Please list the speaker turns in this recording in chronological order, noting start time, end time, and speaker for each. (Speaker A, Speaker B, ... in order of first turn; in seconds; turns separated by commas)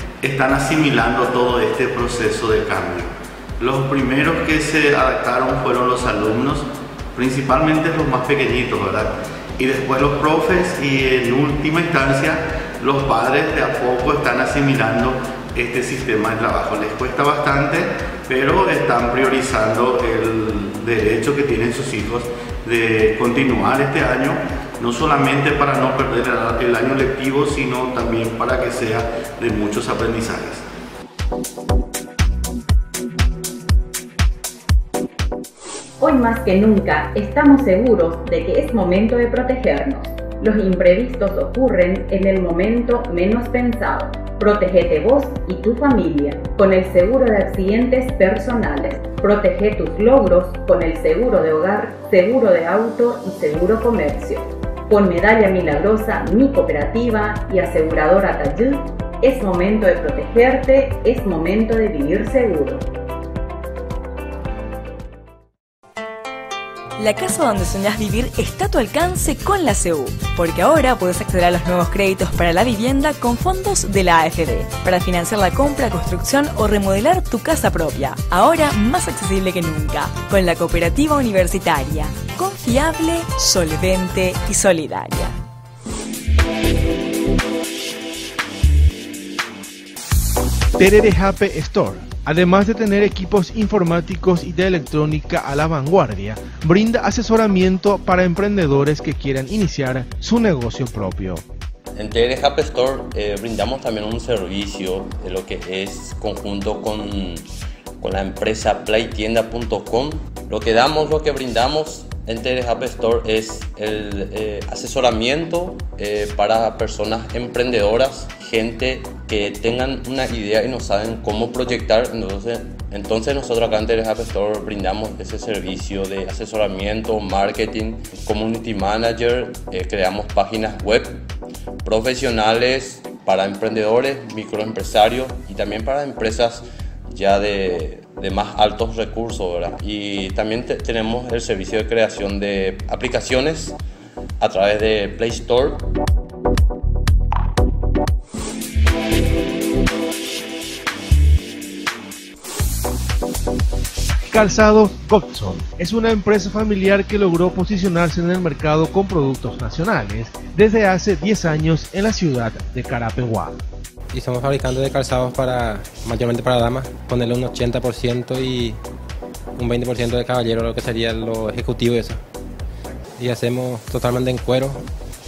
Speaker A: 0.2-30.6, Speaker B: 36.0-62.8, Speaker C: 67.0-85.3, Speaker D: 90.8-101.4, Speaker E: 102.0-107.5, Speaker E: 108.0-131.2, Speaker E: 131.8-143.8, Speaker E: 144.4-145.8, Speaker D: 154.3-163.5, Speaker F: 164.1-168.8, Speaker F: 169.6-172.2, Speaker F: 173.2-174.8